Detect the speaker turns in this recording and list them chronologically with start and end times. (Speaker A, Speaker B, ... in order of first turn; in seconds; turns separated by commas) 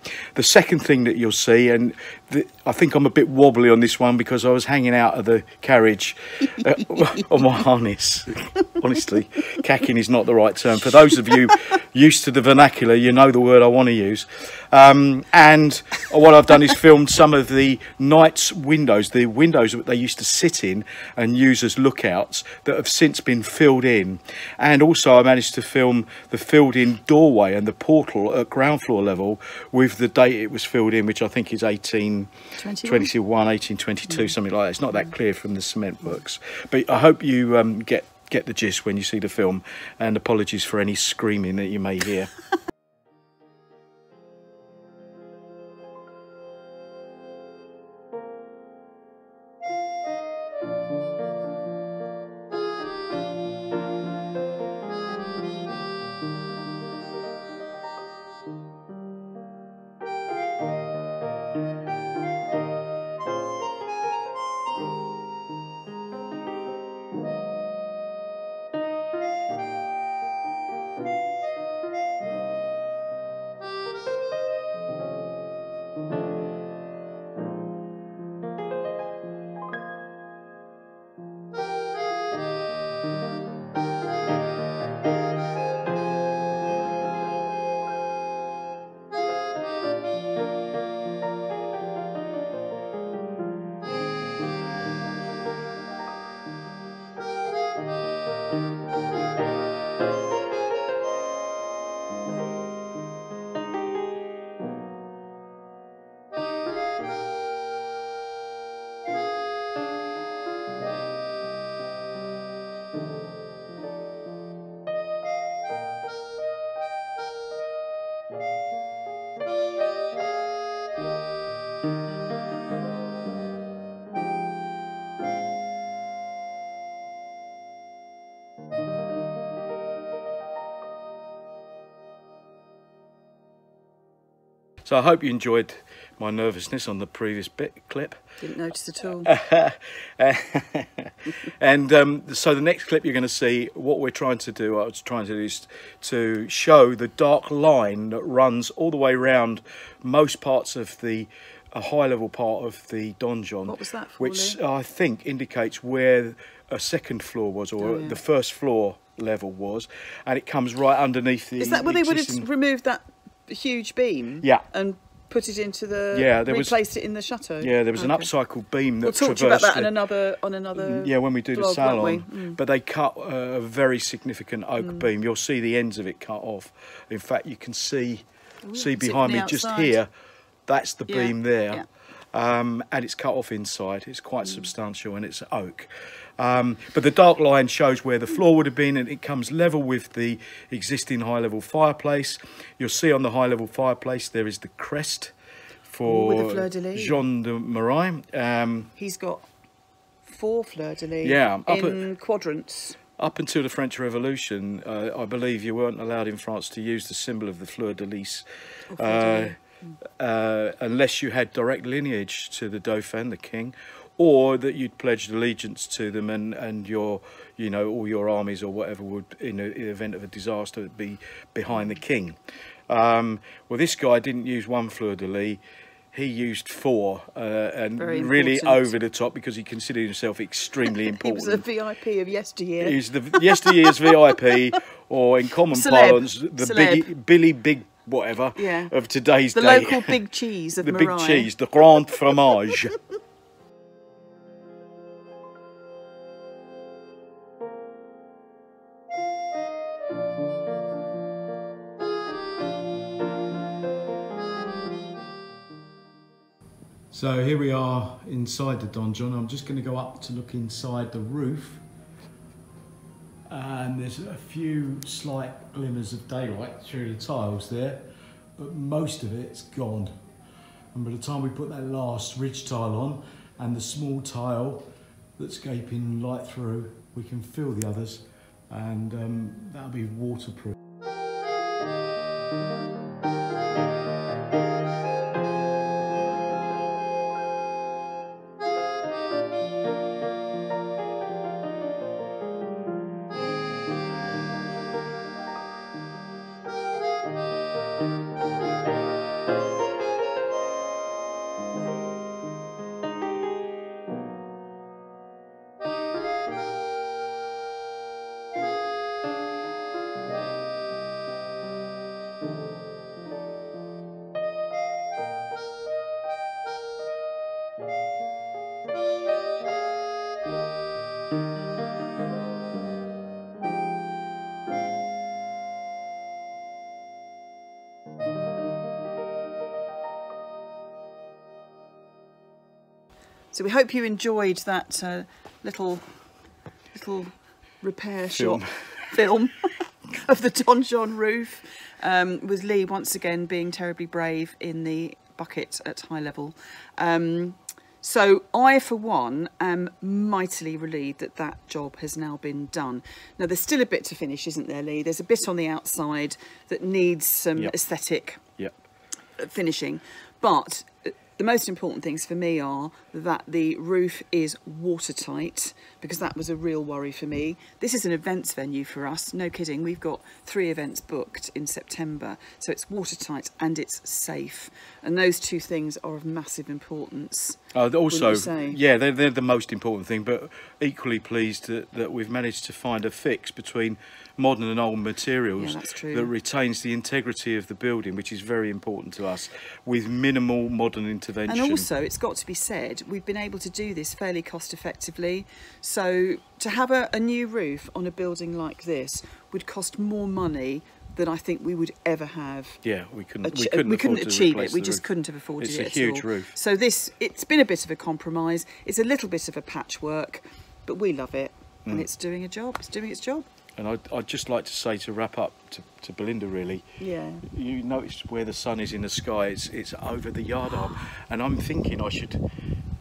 Speaker A: 0.3-32.3, Speaker B: 32.6-33.1, Speaker A: 32.8-42.3, Speaker A: 134.8-138.2, Speaker B: 138.4-139.3, Speaker A: 139.2-162.5, Speaker B: 153.7-154.6, Speaker B: 157.8-158.2, Speaker B: 161.6-168.3, Speaker A: 166.1-166.8, Speaker A: 167.6-169.9, Speaker B: 169.0-172.6, Speaker A: 170.7-180.1, Speaker B: 174.8-175.1, Speaker B: 178.6-180.0, Speaker A: 180.7-195.3, Speaker B: 181.1-181.8, Speaker A: 195.9-198.9, Speaker B: 196.0-197.2, Speaker B: 198.9-199.4, Speaker B: 200.2-203.0, Speaker A: 201.2-202.0, Speaker A: 203.2-209.6, Speaker B: 208.9-209.6, Speaker A: 210.2-222.3, Speaker A: 222.9-225.6, Speaker A: 226.1-231.6, Speaker B: 228.0-228.9, Speaker B: 230.9-234.6, Speaker A: 232.8-240.2, Speaker B: 235.7-237.1, Speaker B: 238.6-238.9, Speaker B: 239.5-241.5, Speaker A: 240.8-243.0, Speaker A: 257.1-261.8, Speaker A: 263.5-268.0, Speaker A: 268.6-270.1, Speaker A: 270.9-274.8, Speaker A: 275.4-280.7, Speaker B: 333.5-336.0, Speaker B: 336.9-358.4, Speaker A: 338.4-338.7, Speaker B: 359.4-378.8, Speaker A: 377.7-391.9, Speaker B: 385.6-386.3, Speaker B: 391.5-402.8, Speaker A: 402.8-405.0, Speaker B: 403.4-413.4, Speaker A: 405.6-406.5, Speaker A: 413.8-416.8, Speaker B: 417.0-417.4, Speaker A: 417.5-422.4